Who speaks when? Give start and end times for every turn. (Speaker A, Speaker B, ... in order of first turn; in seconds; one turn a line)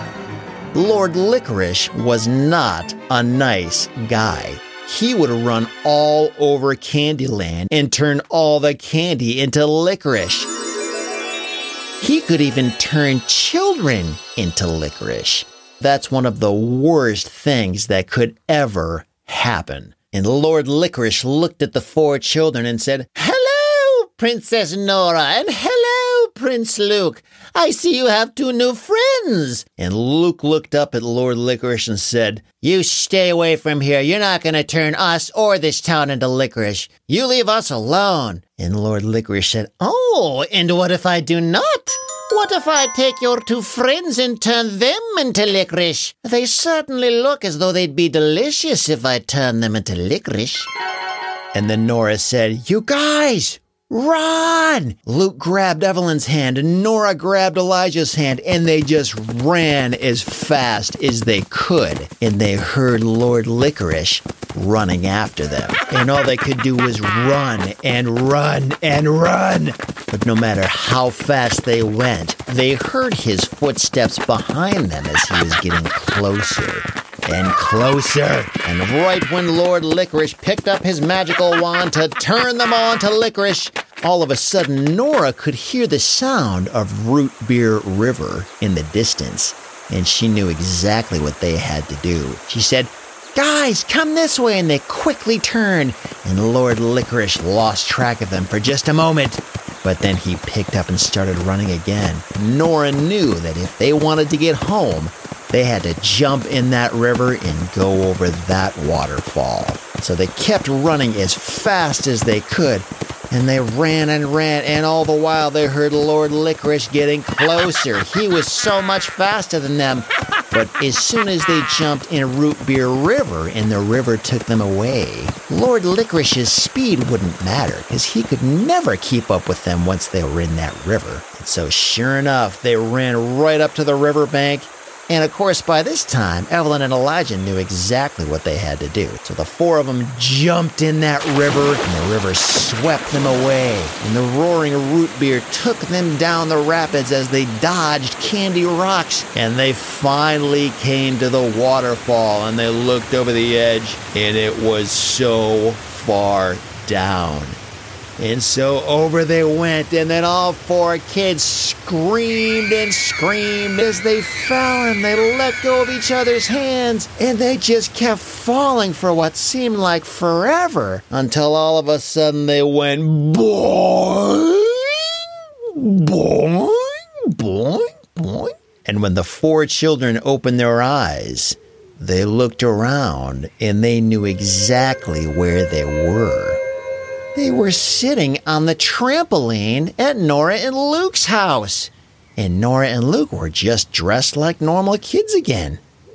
Speaker A: 0.7-10.5
Speaker A: 12.0-50.7
Speaker A: 51.5-157.6
Speaker A: 158.2-186.6
Speaker A: 187.3-195.8